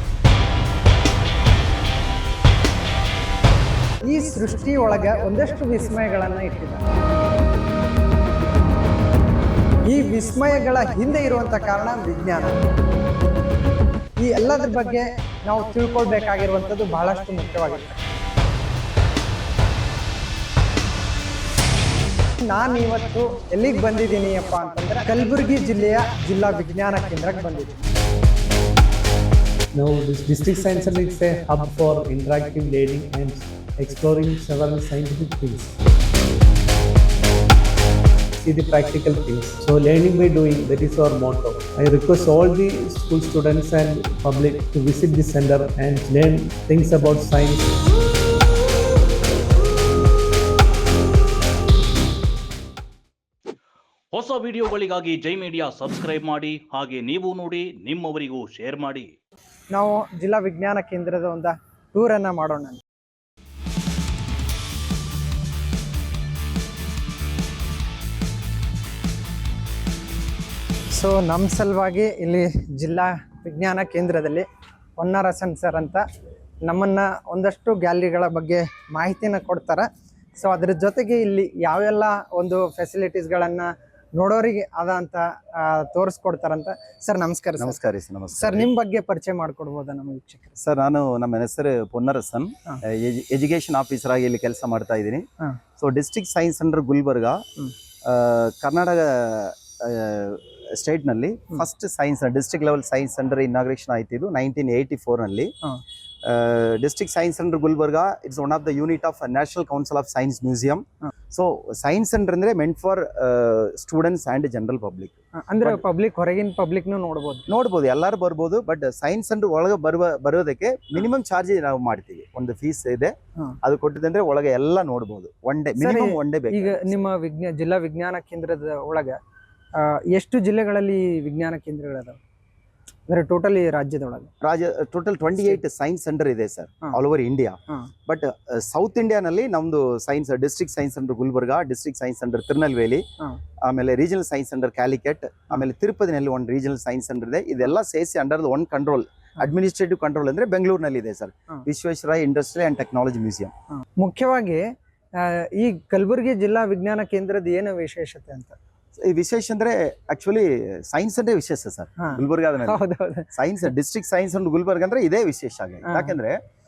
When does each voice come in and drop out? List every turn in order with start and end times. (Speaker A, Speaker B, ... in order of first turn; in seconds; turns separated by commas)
Speaker A: 4.0-6.8, Speaker A: 9.8-12.6, Speaker A: 14.2-18.0, Speaker A: 22.4-27.8, Speaker B: 29.7-35.7, Speaker B: 38.4-47.7, Speaker C: 54.1-59.1, Speaker A: 59.7-62.8, Speaker A: 70.9-74.5, Speaker A: 75.0-76.0, Speaker A: 76.7-87.8, Speaker D: 87.6-88.7, Speaker A: 88.3-90.6, Speaker D: 90.6-95.3, Speaker D: 95.8-97.4, Speaker D: 98.0-105.5, Speaker D: 106.2-115.8, Speaker A: 115.4-117.5, Speaker D: 117.5-127.0, Speaker A: 125.8-129.2, Speaker A: 129.7-132.2, Speaker A: 133.1-134.3, Speaker D: 134.4-143.0, Speaker D: 143.6-153.5, Speaker A: 153.8-158.6, Speaker D: 159.0-166.4, Speaker A: 162.0-163.3, Speaker A: 165.8-166.1